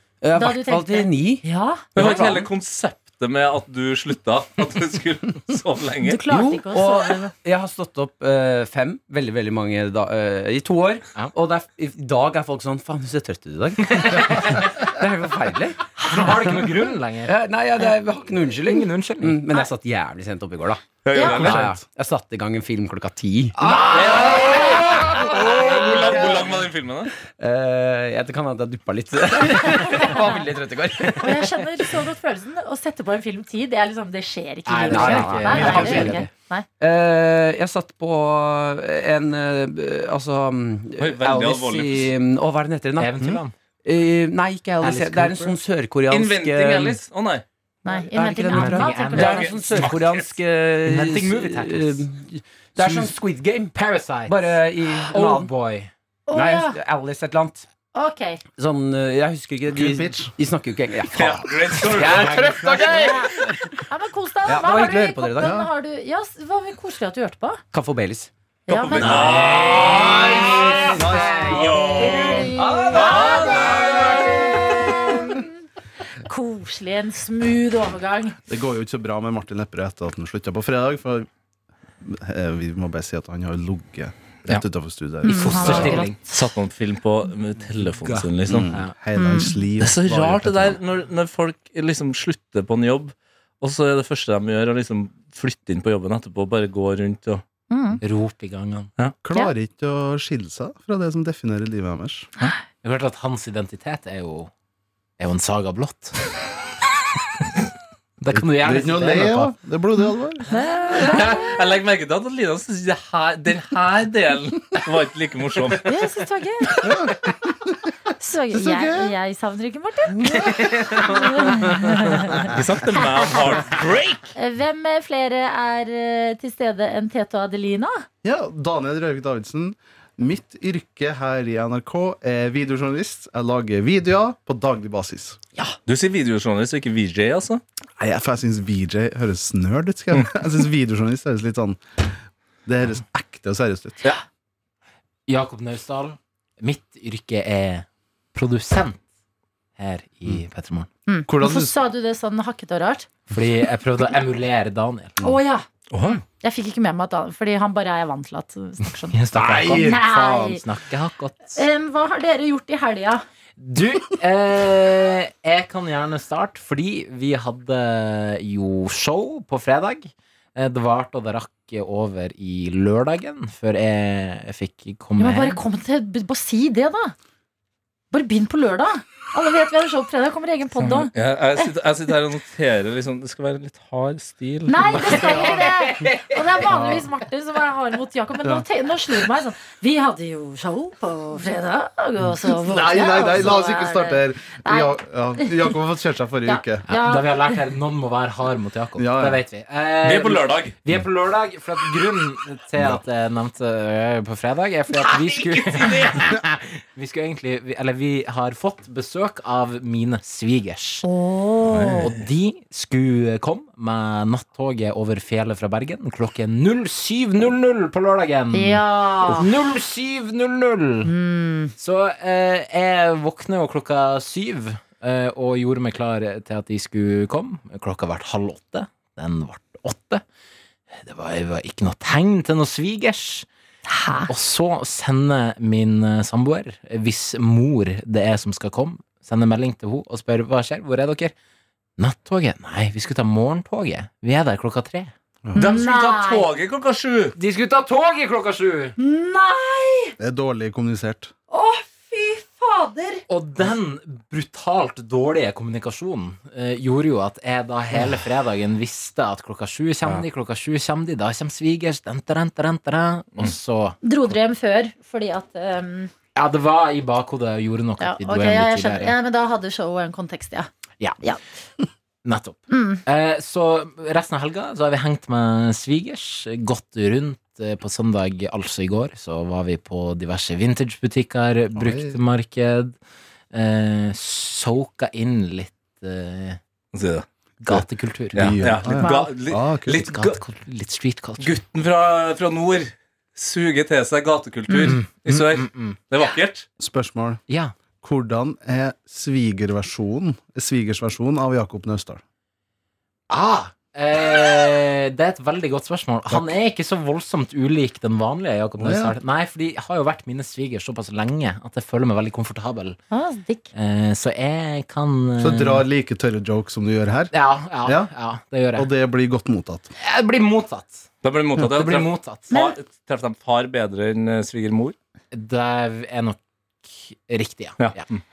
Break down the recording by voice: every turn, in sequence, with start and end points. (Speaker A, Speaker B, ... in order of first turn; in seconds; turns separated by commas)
Speaker A: 0.2-1.4, Speaker B: 0.3-1.9, Speaker C: 1.9-6.2, Speaker A: 2.0-2.5, Speaker B: 6.0-7.3, Speaker A: 6.3-26.5, Speaker D: 14.0-14.8, Speaker D: 15.9-17.9, Speaker D: 18.5-19.6, Speaker C: 21.1-21.7, Speaker B: 21.1-21.5, Speaker C: 23.9-27.1, Speaker A: 27.4-31.6, Speaker B: 29.7-30.2, Speaker B: 31.2-36.7, Speaker D: 34.7-36.2, Speaker A: 34.9-47.0, Speaker E: 35.5-36.2, Speaker C: 41.0-42.1, Speaker D: 43.0-43.6, Speaker D: 44.8-45.5, Speaker C: 46.1-47.4, Speaker B: 47.9-49.6, Speaker A: 48.0-53.8, Speaker D: 48.5-50.3, Speaker C: 49.1-50.2, Speaker D: 50.8-52.0, Speaker D: 52.8-53.1, Speaker D: 53.7-55.9, Speaker A: 54.3-55.5, Speaker B: 56.3-56.8, Speaker A: 56.3-57.7, Speaker B: 57.9-58.4, Speaker A: 58.6-63.8, Speaker E: 59.7-60.3, Speaker C: 61.1-62.5, Speaker D: 61.9-62.9, Speaker B: 62.8-63.3, Speaker B: 63.9-67.6, Speaker A: 64.5-65.6, Speaker E: 65.4-65.7, Speaker A: 67.7-68.3, Speaker B: 68.7-69.3, Speaker C: 68.7-74.7, Speaker D: 69.0-69.8, Speaker E: 69.8-71.7, Speaker A: 69.9-70.6, Speaker B: 70.0-75.5, Speaker A: 72.6-74.3, Speaker B: 76.2-78.4, Speaker E: 78.5-81.3, Speaker E: 82.0-86.1, Speaker B: 85.2-86.3, Speaker C: 85.3-88.7, Speaker D: 85.6-86.2, Speaker D: 87.8-89.0, Speaker E: 88.5-90.8, Speaker B: 89.2-89.6, Speaker C: 89.8-97.4, Speaker B: 97.7-98.0, Speaker D: 98.0-98.9, Speaker E: 99.2-102.3, Speaker D: 102.8-104.5, Speaker D: 105.2-106.2, Speaker D: 108.2-109.5, Speaker E: 108.3-110.5, Speaker B: 110.5-111.6, Speaker C: 110.9-116.0, Speaker B: 115.9-116.8, Speaker E: 116.8-117.9, Speaker B: 118.2-122.5, Speaker E: 118.5-119.1, Speaker E: 120.3-120.8, Speaker C: 122.5-124.3, Speaker B: 124.3-128.1, Speaker E: 128.2-135.4, Speaker C: 135.9-137.6, Speaker E: 138.0-142.0, Speaker E: 142.7-144.0, Speaker D: 145.3-149.0, Speaker D: 149.8-150.9, Speaker B: 151.1-153.1, Speaker E: 151.3-151.8, Speaker D: 153.3-155.2, Speaker B: 155.2-160.6, Speaker C: 155.9-156.2, Speaker D: 159.1-161.6, Speaker E: 159.3-160.0, Speaker B: 161.5-163.2, Speaker D: 163.6-175.6, Speaker B: 175.2-177.2, Speaker B: 178.1-181.1, Speaker C: 181.1-185.3, Speaker B: 184.7-195.7, Speaker D: 185.1-186.2, Speaker E: 192.2-196.8, Speaker B: 196.4-197.6, Speaker D: 196.9-211.1, Speaker E: 199.0-199.4, Speaker C: 200.0-200.8, Speaker C: 205.0-206.1, Speaker B: 211.0-212.1, Speaker C: 211.7-212.2, Speaker D: 212.0-221.1, Speaker B: 218.5-219.5, Speaker B: 221.0-221.7, Speaker D: 221.8-230.2, Speaker D: 230.9-233.5, Speaker B: 233.9-234.3, Speaker D: 234.3-241.3, Speaker D: 242.0-245.1, Speaker E: 245.5-245.7, Speaker C: 245.6-247.4, Speaker B: 245.6-246.5, Speaker D: 247.4-248.9, Speaker B: 249.0-250.2, Speaker E: 250.2-251.3, Speaker B: 251.5-253.2, Speaker D: 253.3-264.0, Speaker B: 264.0-266.1, Speaker D: 266.4-269.2, Speaker B: 268.0-270.7, Speaker D: 272.2-283.0, Speaker B: 272.7-273.0, Speaker E: 281.8-282.2, Speaker D: 283.5-286.6, Speaker C: 286.9-287.2, Speaker D: 287.6-289.0, Speaker E: 287.7-290.1, Speaker C: 288.3-290.4, Speaker B: 288.9-289.3, Speaker D: 289.9-291.5, Speaker C: 291.4-296.7, Speaker B: 294.7-295.0, Speaker D: 294.9-296.0, Speaker E: 296.8-297.4, Speaker D: 297.5-297.8, Speaker E: 298.0-302.2, Speaker D: 303.3-313.0, Speaker E: 308.8-309.2, Speaker B: 313.1-313.7, Speaker D: 313.7-315.9, Speaker E: 315.4-317.3, Speaker D: 317.3-318.9, Speaker E: 317.8-318.1, Speaker E: 318.8-319.9, Speaker D: 320.0-321.1, Speaker C: 321.2-324.9, Speaker D: 321.7-322.5, Speaker B: 322.5-322.8, Speaker D: 325.3-328.0, Speaker C: 327.8-328.2